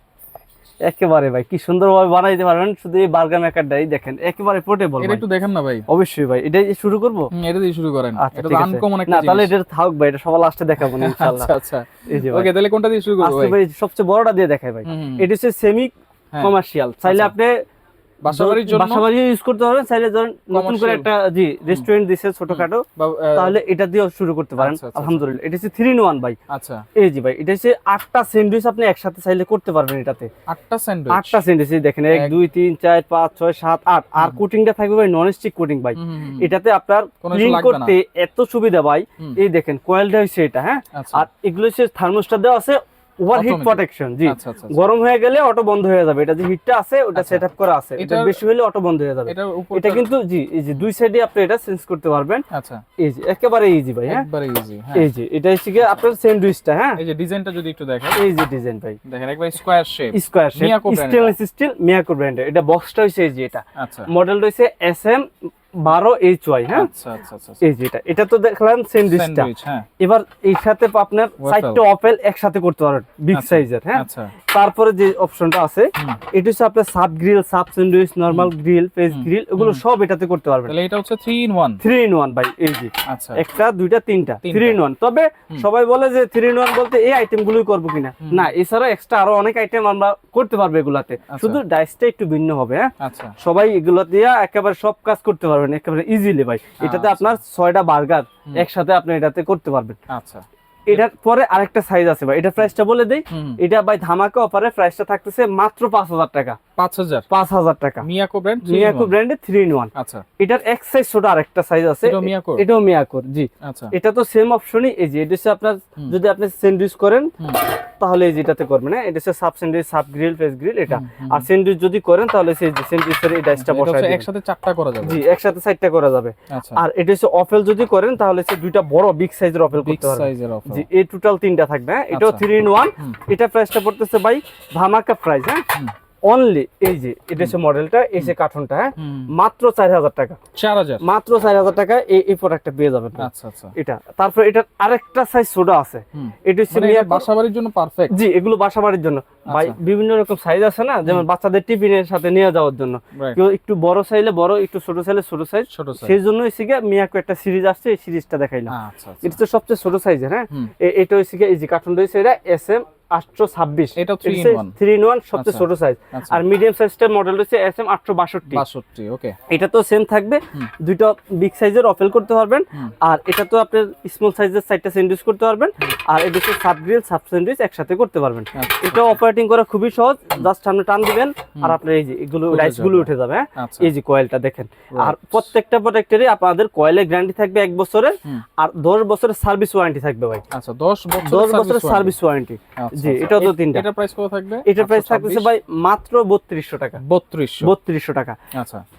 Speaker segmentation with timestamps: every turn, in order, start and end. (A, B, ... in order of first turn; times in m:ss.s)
0:00.8-0:05.2 A
0:05.0-0:05.8 B
0:05.9-0:07.3 A
0:07.3-0:09.5 B
0:08.2-0:11.5 A
0:10.8-0:13.6 B
0:12.1-0:12.5 A
0:13.2-0:17.6 A
0:14.8-0:15.3 B
0:16.3-0:17.3 B
0:18.2-0:19.0 B
0:18.3-0:22.8 A
0:20.5-0:21.1 B
0:22.5-0:23.6 B
0:23.4-0:26.4 A
0:24.6-0:25.3 B
0:26.5-0:26.8 B
0:26.9-0:30.3 A
0:30.5-0:31.4 B
0:31.1-0:52.4 A
0:36.0-0:36.5 B
0:37.2-0:38.0 B
0:40.9-0:41.3 B
0:43.3-0:44.8 B
0:47.2-0:47.4 B
0:48.0-0:48.4 B
0:49.3-0:50.1 B
0:52.5-0:52.8 B
0:53.0-0:54.2 A
0:54.1-0:55.1 B
0:54.9-0:57.0 A
0:57.0-0:58.2 B
0:58.2-0:59.0 A
0:59.1-1:01.3 B
1:00.1-1:06.9 A
1:03.8-1:04.1 B
1:06.7-1:07.6 B
1:07.6-1:20.8 A
1:09.0-1:09.9 B
1:11.4-1:11.8 B
1:13.3-1:14.3 B
1:19.1-1:19.8 B
1:20.7-1:21.8 B
1:21.8-1:40.0 A
1:23.1-1:23.4 B
1:24.4-1:24.8 B
1:28.2-1:28.5 B
1:31.3-1:31.6 B
1:33.0-1:33.3 B
1:36.8-1:37.4 B
1:40.1-1:41.1 B
1:40.9-1:46.6 A
1:43.3-1:43.6 B
1:46.8-1:47.2 B
1:47.3-1:48.1 A
1:48.0-1:49.1 B
1:48.6-1:57.3 A
1:49.9-1:50.2 B
1:52.0-1:52.6 B
1:53.6-1:53.9 B
1:58.0-2:04.3 A
2:00.9-2:01.5 B
2:03.6-2:05.2 B
2:05.0-2:15.6 A
2:06.5-2:06.8 B
2:09.8-2:10.8 B
2:12.1-2:12.4 B
2:16.2-2:20.4 A
2:19.0-2:19.3 B
2:20.5-2:21.0 B
2:21.0-2:27.3 A
2:23.2-2:23.7 B
2:26.1-2:28.1 B
2:28.1-2:48.6 A
2:29.5-2:29.8 B
2:33.1-2:33.4 B
2:35.7-2:36.2 B
2:38.7-2:39.4 B
2:44.0-2:44.8 B
2:45.3-2:46.4 B
2:48.5-2:49.4 B
2:49.5-3:10.4 A
2:58.6-2:59.2 B
3:02.5-3:03.9 B
3:04.9-3:05.4 B
3:10.5-3:12.2 B
3:11.2-3:13.9 A
3:12.8-3:15.5 B
3:14.6-3:17.0 A
3:17.0-3:17.7 B
3:17.6-3:18.4 A
3:18.5-3:18.8 B